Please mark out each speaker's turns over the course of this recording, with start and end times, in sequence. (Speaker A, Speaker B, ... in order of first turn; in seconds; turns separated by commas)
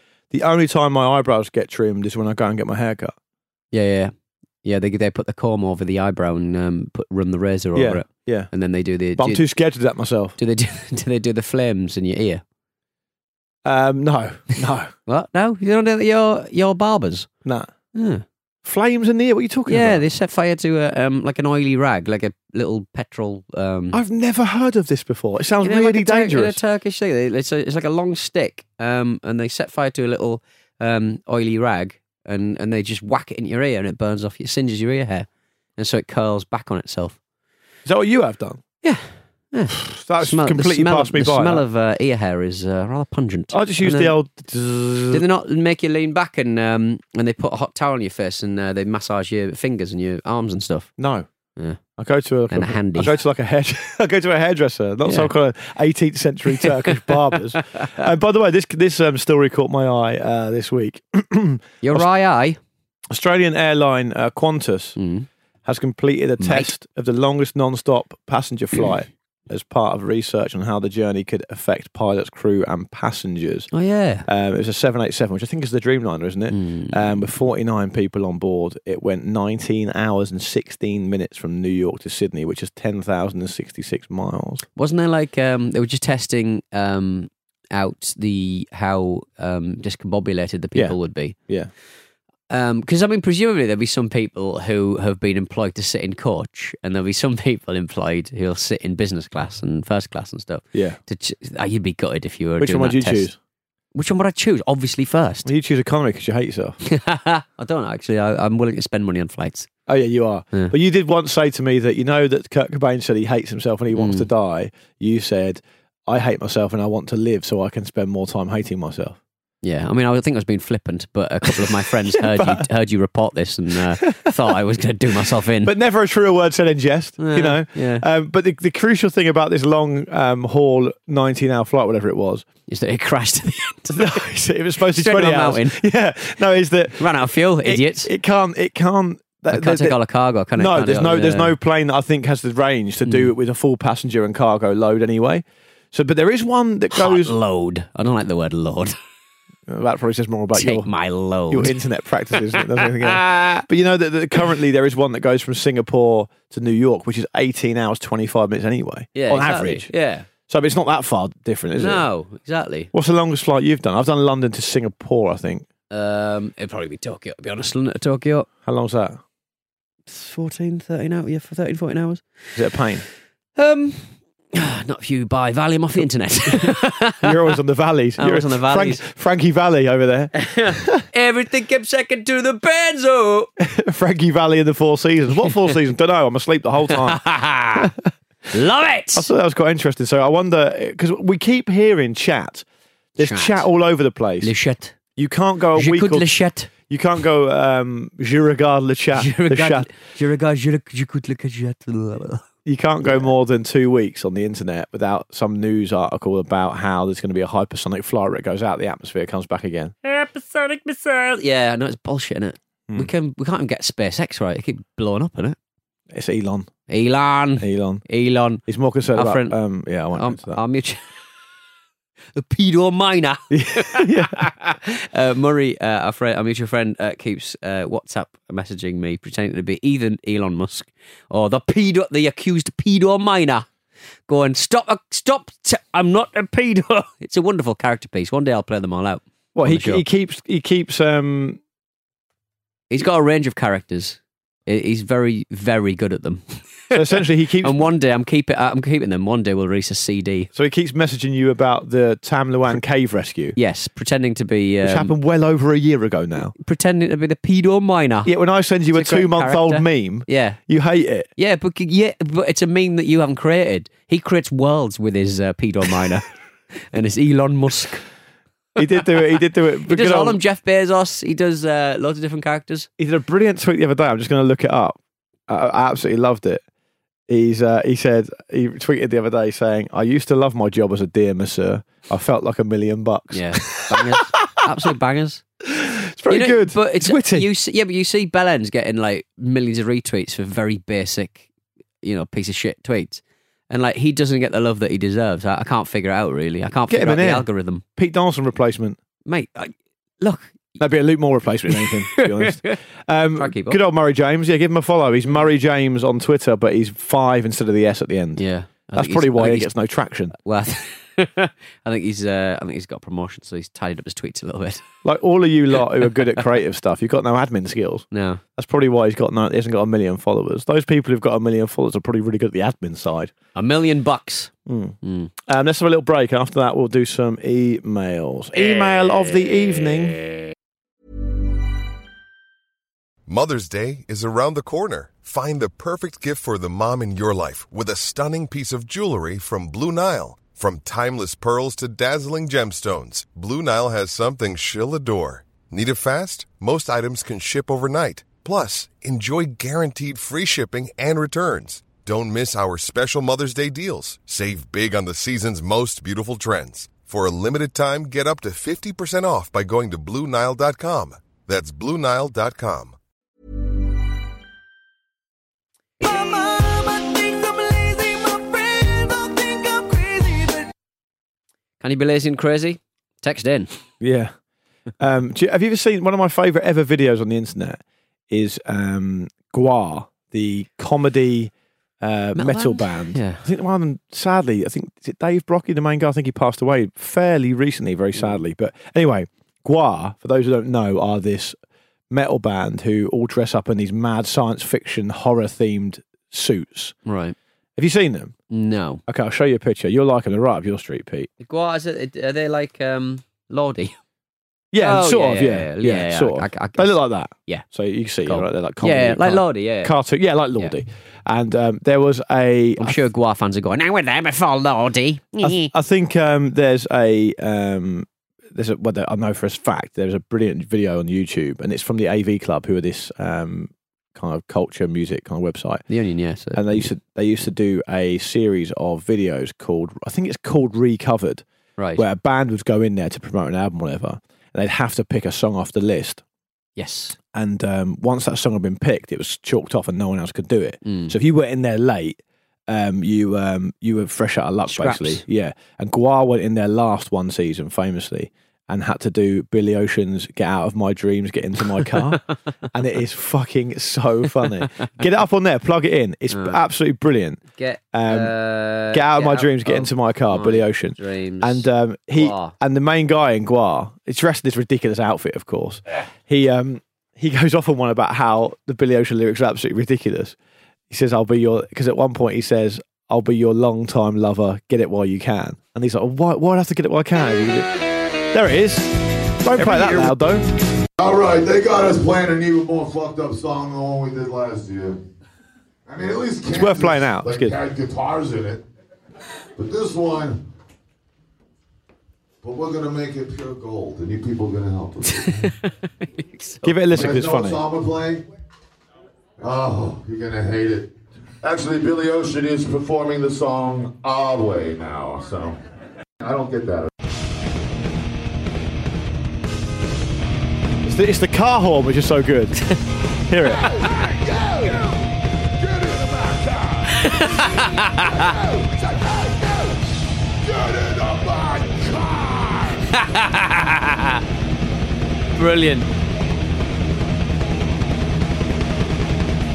Speaker A: 0.3-3.1, Speaker B: 3.7-4.1, Speaker B: 4.6-9.4, Speaker A: 7.8-8.5, Speaker A: 9.2-10.4, Speaker B: 10.4-12.4, Speaker A: 13.7-14.9, Speaker B: 15.1-17.3, Speaker A: 17.4-17.7, Speaker B: 17.9-18.2, Speaker A: 18.6-20.0, Speaker B: 19.7-24.0, Speaker A: 23.9-26.6, Speaker B: 25.6-37.2, Speaker A: 37.9-38.6, Speaker B: 38.8-44.1, Speaker A: 39.7-41.6, Speaker A: 43.5-45.2, Speaker B: 45.1-50.9, Speaker A: 51.0-51.3, Speaker A: 51.9-62.1, Speaker B: 52.5-53.2, Speaker B: 55.0-55.3, Speaker B: 56.6-58.0, Speaker B: 61.8-62.6, Speaker A: 63.1-65.0, Speaker B: 65.0-65.3, Speaker A: 65.7-73.7, Speaker B: 66.4-66.7, Speaker B: 73.7-74.3, Speaker A: 74.2-84.6, Speaker B: 76.5-77.3, Speaker B: 84.8-91.4, Speaker A: 90.8-91.7, Speaker B: 92.5-103.3, Speaker A: 100.7-101.0, Speaker A: 102.6-103.4, Speaker B: 103.9-105.5, Speaker A: 105.5-106.8, Speaker B: 106.9-109.7, Speaker A: 109.9-119.2, Speaker B: 114.0-114.3, Speaker B: 119.6-125.7, Speaker A: 121.5-122.7, Speaker A: 125.6-132.4, Speaker B: 127.2-128.0, Speaker B: 132.7-134.2, Speaker A: 133.9-140.0, Speaker B: 134.9-135.8, Speaker B: 137.0-138.1, Speaker B: 139.5-141.6, Speaker A: 140.6-147.3, Speaker B: 143.1-143.3, Speaker B: 146.9-149.0, Speaker A: 149.7-150.9, Speaker B: 150.6-151.8, Speaker A: 151.5-162.1, Speaker B: 152.5-153.6, Speaker B: 159.2-160.3, Speaker B: 161.8-162.9, Speaker A: 162.9-165.7, Speaker B: 165.9-168.5, Speaker A: 168.7-169.2, Speaker B: 170.1-172.5, Speaker A: 172.6-173.1, Speaker B: 173.6-177.5, Speaker A: 176.6-181.0, Speaker B: 178.2-179.0, Speaker B: 180.4-183.5, Speaker A: 183.6-187.9, Speaker B: 187.0-187.9, Speaker B: 188.5-189.3, Speaker A: 189.2-192.7, Speaker A: 193.2-194.5, Speaker B: 193.2-193.7, Speaker B: 194.4-194.9, Speaker A: 195.2-199.9, Speaker B: 195.8-196.7, Speaker B: 199.2-202.4, Speaker A: 202.7-209.9, Speaker B: 203.0-203.3, Speaker B: 210.0-215.6, Speaker A: 216.1-216.7, Speaker B: 216.9-218.6, Speaker A: 217.6-218.0, Speaker A: 218.7-220.6, Speaker B: 219.1-219.6, Speaker B: 220.1-221.2, Speaker B: 222.3-233.7, Speaker A: 223.5-224.4, Speaker B: 234.3-240.0, Speaker A: 239.6-241.6, Speaker B: 242.9-250.5, Speaker A: 246.9-247.8, Speaker A: 250.5-253.6, Speaker B: 253.6-255.1, Speaker A: 254.8-256.5, Speaker B: 256.5-258.3, Speaker A: 258.2-261.3, Speaker B: 258.9-260.6, Speaker B: 261.4-268.1, Speaker A: 268.8-270.4, Speaker B: 269.8-272.9, Speaker A: 273.0-276.6, Speaker A: 277.3-284.6, Speaker B: 283.3-285.4, Speaker A: 285.6-287.5, Speaker B: 286.3-291.5, Speaker B: 292.0-297.8, Speaker A: 296.9-299.0, Speaker B: 299.3-300.8, Speaker A: 300.8-310.3, Speaker B: 301.7-302.8, Speaker B: 303.4-303.8, Speaker B: 308.4-309.7, Speaker B: 310.4-314.9, Speaker A: 315.0-323.3, Speaker B: 318.1-318.4, Speaker B: 323.6-325.3, Speaker A: 324.7-330.2, Speaker C: 333.3-363.0, Speaker B: 366.0-370.7, Speaker B: 371.8-373.7, Speaker A: 374.0-374.3, Speaker A: 375.0-391.6, Speaker B: 382.4-383.4, Speaker A: 392.1-397.0, Speaker B: 397.1-397.4, Speaker A: 397.8-398.4, Speaker B: 398.5-399.0, Speaker A: 399.1-401.3, Speaker B: 401.4-403.9, Speaker A: 404.7-413.0, Speaker B: 404.8-407.6, Speaker B: 408.2-409.9, Speaker B: 412.8-415.7, Speaker A: 415.4-425.8, Speaker B: 425.9-426.9, Speaker A: 426.5-436.2, Speaker B: 431.8-432.0, Speaker B: 436.8-437.2, Speaker A: 437.3-470.4, Speaker B: 440.9-441.1, Speaker B: 444.7-445.2, Speaker B: 456.3-456.6, Speaker B: 457.6-462.6, Speaker A: 470.9-477.8, Speaker A: 478.3-480.6, Speaker B: 479.6-480.0, Speaker D: 481.0-485.0, Speaker D: 485.9-488.6, Speaker A: 486.5-487.6, Speaker D: 489.6-490.4, Speaker D: 492.4-495.4, Speaker B: 495.1-496.8, Speaker A: 496.6-497.6, Speaker D: 496.9-498.2, Speaker D: 499.4-505.6, Speaker D: 506.2-506.9, Speaker A: 510.9-512.6, Speaker A: 513.3-513.8, Speaker D: 513.5-515.0, Speaker D: 515.6-519.8, Speaker B: 517.0-518.1, Speaker D: 520.4-522.9, Speaker B: 522.9-524.2, Speaker B: 525.4-525.9